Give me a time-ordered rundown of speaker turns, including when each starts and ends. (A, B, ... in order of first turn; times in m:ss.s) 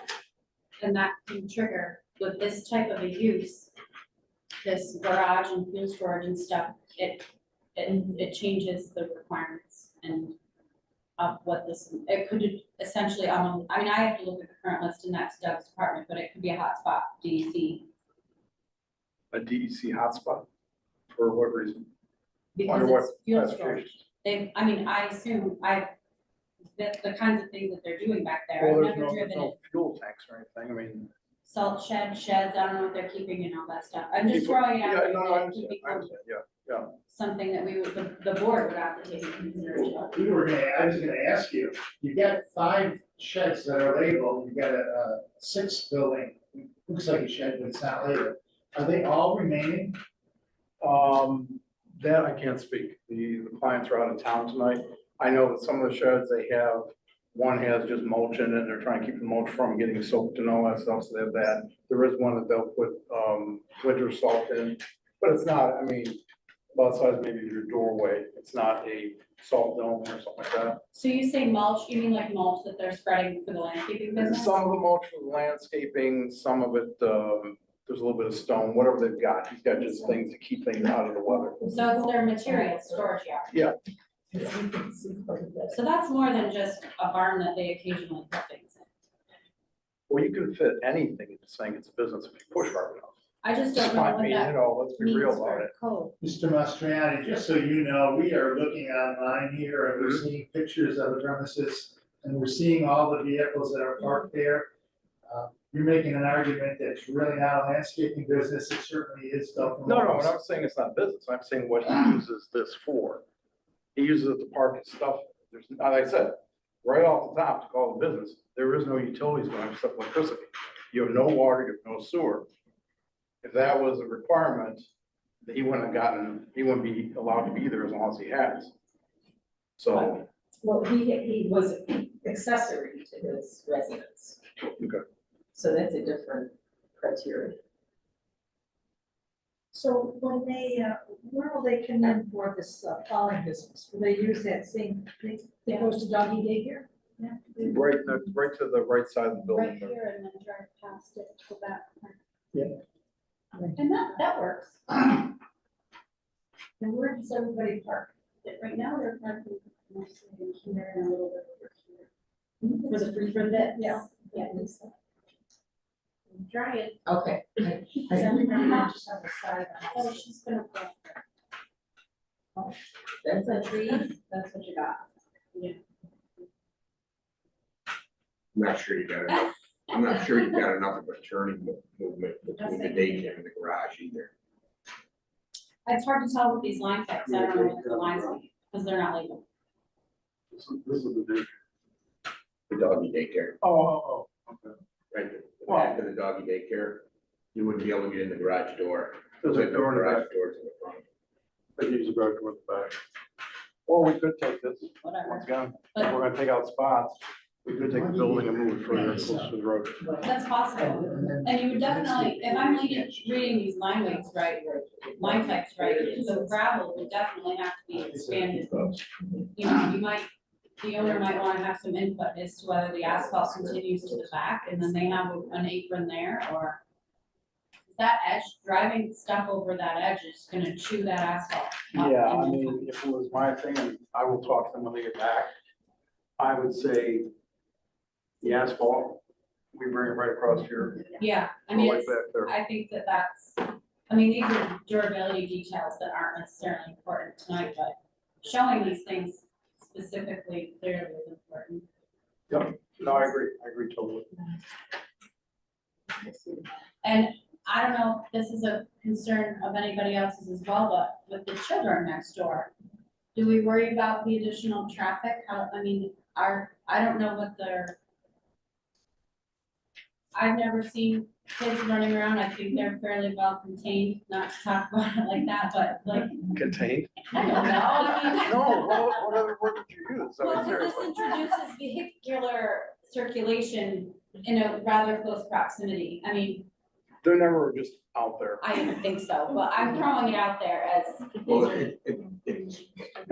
0:00.8-0:03.7 A
0:04.6-0:10.4 A
0:11.2-0:17.9 A
0:19.3-0:20.5 B
0:21.1-0:21.9 B
0:22.6-0:25.9 A
0:22.6-0:24.0 B
0:26.7-0:29.6 A
0:28.6-0:31.1 B
0:31.4-0:36.1 A
0:34.3-0:37.0 B
0:37.1-0:40.1 A
0:40.0-0:50.0 C
0:50.8-1:06.2 B
1:06.7-1:10.8 B
1:10.9-1:14.6 A
1:14.2-1:21.6 B
1:21.7-1:23.5 A
1:24.3-1:25.8 D
1:25.7-1:28.9 A
1:30.1-1:33.1 B
1:33.4-1:36.1 A
1:33.7-1:35.7 B
1:36.2-1:44.7 C
1:40.0-1:40.2 B
1:45.3-1:50.3 C
1:49.8-1:53.2 B
1:54.0-2:02.5 B
2:03.4-2:04.9 B
2:05.4-2:08.7 B
2:09.8-2:10.2 B
2:09.9-2:14.4 D
2:15.5-2:17.6 D
2:19.7-2:26.9 E
2:25.7-2:25.9 A
2:27.6-2:30.0 B
2:29.5-2:32.2 A
2:33.8-2:35.1 A
2:36.8-2:38.1 E
2:36.8-2:37.1 A
2:38.4-2:42.1 A
2:42.8-2:44.7 A
2:42.9-2:43.3 D
2:43.8-2:44.4 E
2:46.3-2:47.0 A
2:47.0-2:50.1 D
2:48.1-2:48.9 A
2:49.9-2:51.2 A
2:53.2-2:55.0 D
2:55.5-2:55.8 A
2:58.5-3:04.3 F
3:02.5-3:03.3 A
3:05.9-3:09.4 A
3:07.2-3:08.4 B
3:10.5-3:11.5 B
3:12.7-3:13.6 F
3:13.6-3:14.8 B
3:15.1-3:21.1 F
3:15.7-3:16.0 B
3:19.4-3:20.3 B
3:21.8-3:23.0 B
3:23.9-3:30.0 B
3:25.0-3:26.2 A
3:27.8-3:29.5 C
3:30.2-3:38.9 A
3:30.8-3:33.5 C
3:34.0-3:36.6 D
3:37.9-3:39.0 C
3:39.6-3:40.3 A
3:40.8-3:46.8 A
3:47.9-3:52.8 A
3:51.9-3:55.5 B
3:56.4-3:57.3 B
3:58.4-3:59.2 B
3:59.7-4:01.1 B
4:01.2-4:11.8 A
4:01.7-4:02.5 B
4:12.5-4:14.5 B
4:16.1-4:16.8 D
4:17.0-4:22.7 A
4:23.4-4:28.0 A
4:30.3-4:36.4 A
4:36.5-4:41.3 B
4:37.3-4:39.2 A
4:40.4-4:46.7 A
4:47.2-4:48.7 B
4:48.6-4:51.9 A
4:51.5-4:52.8 F